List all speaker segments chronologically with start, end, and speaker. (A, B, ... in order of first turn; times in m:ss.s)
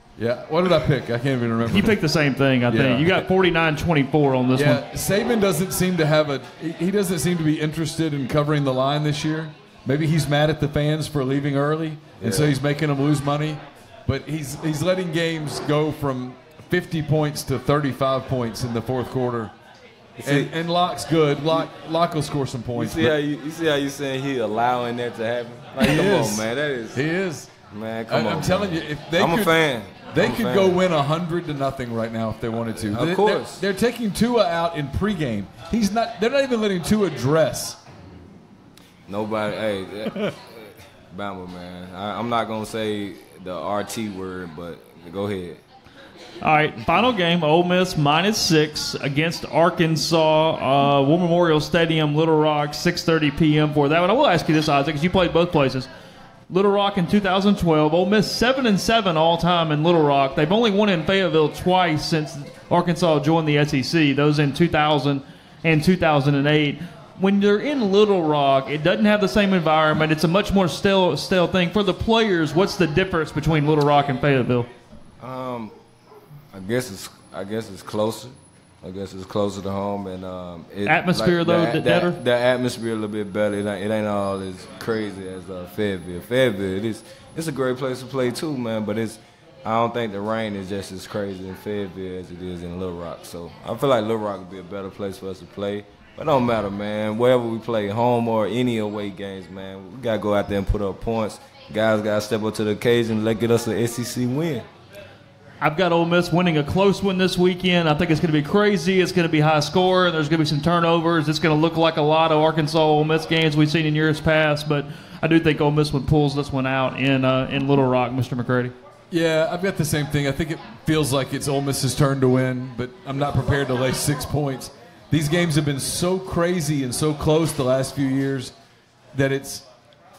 0:00.2-0:02.0 A
0:01.7-0:04.8 B
0:02.7-0:03.2 A
0:04.6-0:19.5 A
0:12.2-0:12.6 C
0:20.2-0:20.5 C
0:20.2-0:23.2 A
0:22.7-0:27.0 C
0:25.8-0:27.5 A
0:27.7-0:30.8 C
0:28.1-0:29.6 A
0:30.1-0:37.8 A
0:32.8-0:33.6 C
0:39.1-0:45.6 C
0:46.4-0:55.9 B
0:56.5-1:14.7 B
1:15.2-1:15.8 C
1:16.5-1:44.7 C
1:20.9-1:22.2 B
1:45.6-1:58.8 B
1:59.1-2:08.5 A
2:09.1-2:09.7 A